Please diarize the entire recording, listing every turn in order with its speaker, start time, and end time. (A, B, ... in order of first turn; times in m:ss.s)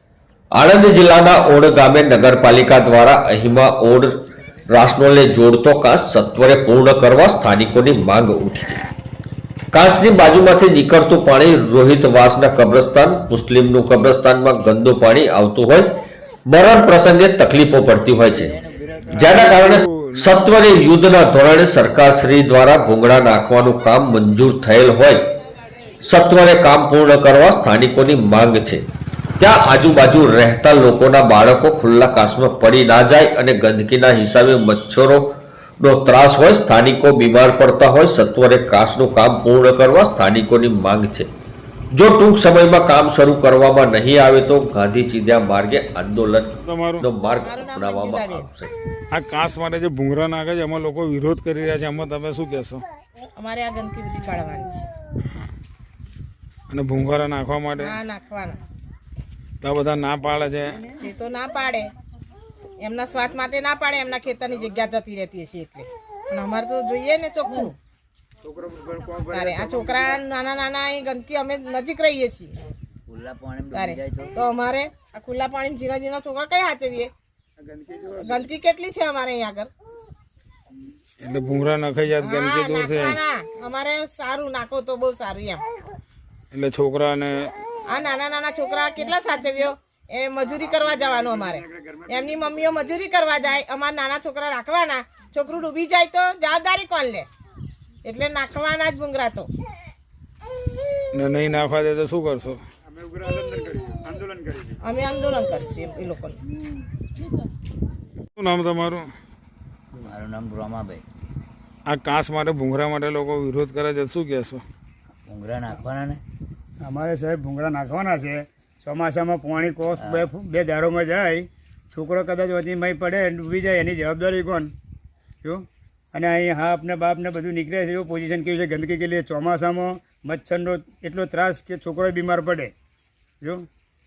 0:00.5-0:08.8 A
0:09.7-0:15.9 A
0:16.5-0:18.6 A
0:18.2-0:19.2 B
0:19.1-0:25.3 A
0:19.1-0:20.5 C
0:26.0-0:28.8 A
0:29.4-0:41.3 A
0:41.9-0:48.7 A
0:46.6-0:47.1 C
0:47.4-0:48.5 D
0:49.1-0:52.8 C
0:53.4-0:54.9 D
0:56.7-0:58.0 C
0:57.8-0:58.6 D
0:59.6-1:00.8 C
1:00.9-1:01.9 D
1:02.8-1:07.8 D
1:08.4-1:10.2 E
1:09.3-1:12.6 D
1:13.1-1:14.4 B
1:13.7-1:17.1 D
1:17.6-1:18.5 E
1:18.2-1:19.7 D
1:21.2-1:23.2 C
1:22.2-1:25.6 D
1:26.5-1:27.5 C
1:27.9-1:37.3 D
1:30.6-1:32.7 E
1:38.0-1:39.5 D
1:41.1-1:42.6 C
1:42.9-1:44.8 E
1:44.8-1:46.4 D
1:48.4-1:49.1 C
1:50.0-1:51.0 B
1:51.9-1:54.6 C
1:55.3-1:56.2 B
1:56.8-2:04.7 E
2:00.0-2:00.3 B
2:05.4-2:12.7 E
2:13.4-2:13.7 E